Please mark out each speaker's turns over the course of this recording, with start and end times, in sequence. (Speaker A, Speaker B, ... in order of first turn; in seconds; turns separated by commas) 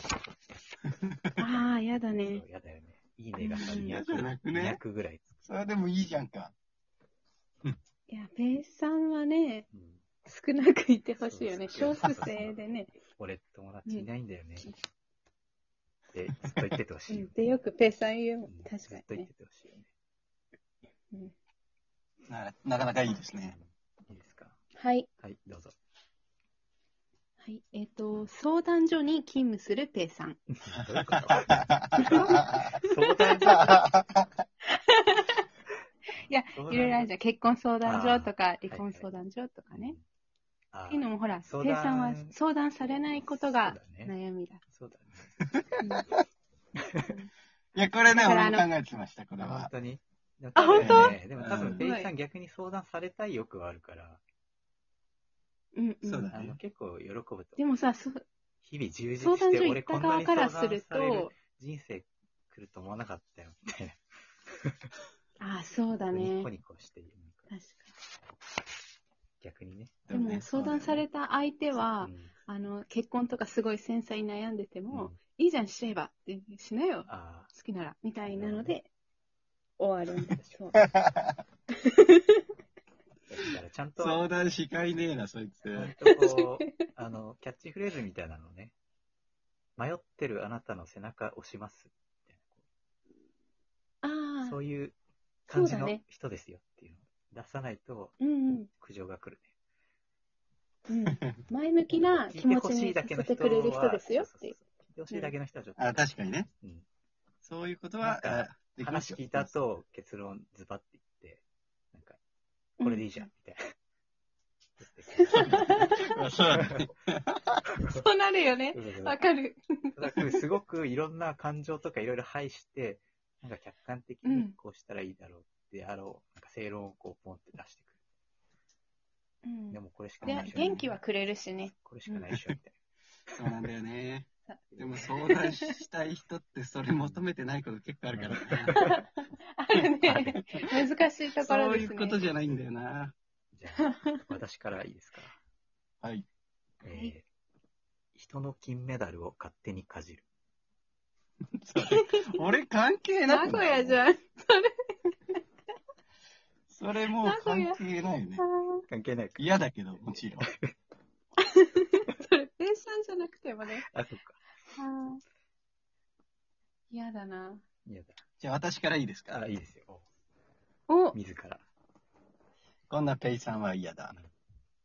Speaker A: 1.4-2.4, Speaker B: 1.4-5.3, Speaker A: 3.4-4.0, Speaker C: 3.6-4.8, Speaker C: 5.4-6.5, Speaker A: 8.1-9.6, Speaker B: 9.7-10.0, Speaker A: 10.2-12.9, Speaker B: 11.2-12.6, Speaker B: 13.1-14.7, Speaker B: 16.1-17.3, Speaker A: 17.1-19.3, Speaker B: 18.4-19.9, Speaker C: 22.3-23.6, Speaker B: 23.5-24.6, Speaker A: 24.7-25.1, Speaker B: 25.2-25.7, Speaker A: 27.4-30.4, Speaker B: 30.5-33.8, Speaker C: 30.8-32.6, Speaker A: 32.1-33.5, Speaker C: 33.4-34.2, Speaker A: 34.7-35.4, Speaker A: 36.2-40.0, Speaker B: 36.5-37.1, Speaker B: 37.8-39.1, Speaker B: 39.7-40.0, Speaker B: 40.7-42.3, Speaker A: 40.9-44.6, Speaker B: 43.2-44.1, Speaker B: 44.7-45.3, Speaker A: 45.8-46.1, Speaker A: 47.0-47.3, Speaker C: 47.7-49.7, Speaker A: 48.1-48.7, Speaker B: 49.4-54.2, Speaker A: 50.6-52.1, Speaker C: 50.8-51.8, Speaker A: 55.7-56.3, Speaker C: 56.0-56.6, Speaker B: 56.3-57.6, Speaker A: 57.6-58.2, Speaker B: 58.6-64.9, Speaker A: 59.2-61.3, Speaker A: 65.4-66.5, Speaker B: 66.1-67.4, Speaker A: 67.5-67.9, Speaker B: 69.4-70.0, Speaker C: 70.1-71.0, Speaker A: 70.1-78.9, Speaker B: 71.8-72.3, Speaker B: 74.9-75.2, Speaker B: 77.1-77.5, Speaker B: 78.3-78.7, Speaker A: 79.8-80.8, Speaker B: 80.2-80.7, Speaker C: 80.7-81.3, Speaker A: 81.8-82.4, Speaker B: 83.3-84.3, Speaker C: 84.0-85.9, Speaker B: 85.7-88.7, Speaker A: 86.0-86.7, Speaker B: 89.8-92.6, Speaker A: 94.0-94.6, Speaker B: 94.4-95.0, Speaker B: 95.5-98.1, Speaker A: 95.5-96.0, Speaker A: 98.2-98.7, Speaker B: 98.8-99.5, Speaker A: 100.9-104.5, Speaker B: 102.2-106.1, Speaker C: 105.8-106.5, Speaker B: 106.6-106.8, Speaker C: 107.4-109.5, Speaker B: 108.0-112.2, Speaker A: 112.8-113.1, Speaker B: 112.8-113.7, Speaker B: 114.8-116.0, Speaker A: 115.3-115.9, Speaker C: 115.5-117.6, Speaker B: 116.6-116.9, Speaker A: 117.9-120.3, Speaker B: 118.7-119.2, Speaker B: 119.9-127.9, Speaker A: 124.2-124.5, Speaker A: 129.4-132.2, Speaker B: 129.7-130.9, Speaker C: 130.3-130.7, Speaker B: 131.6-132.8, Speaker C: 133.4-138.9, Speaker A: 134.5-135.8, Speaker B: 134.7-135.0, Speaker B: 136.9-137.2, Speaker B: 138.1-138.9, Speaker A: 138.7-142.2, Speaker C: 139.7-140.6, Speaker C: 141.4-143.1, Speaker B: 143.5-145.4, Speaker A: 143.8-144.2, Speaker B: 146.8-147.2, Speaker B: 148.1-150.2, Speaker C: 151.6-154.0, Speaker A: 151.8-152.3, Speaker A: 153.2-155.4, Speaker C: 156.7-158.4, Speaker A: 157.2-157.8, Speaker A: 158.4-158.8, Speaker B: 158.9-159.5, Speaker C: 159.4-160.5, Speaker B: 160.1-160.7, Speaker A: 161.4-163.9, Speaker B: 163.9-164.4, Speaker A: 164.7-165.2, Speaker A: 166.9-167.6, Speaker B: 167.8-168.2, Speaker C: 168.4-169.4, Speaker B: 169.3-170.0, Speaker A: 170.9-171.2, Speaker B: 171.1-171.6, Speaker C: 172.9-174.1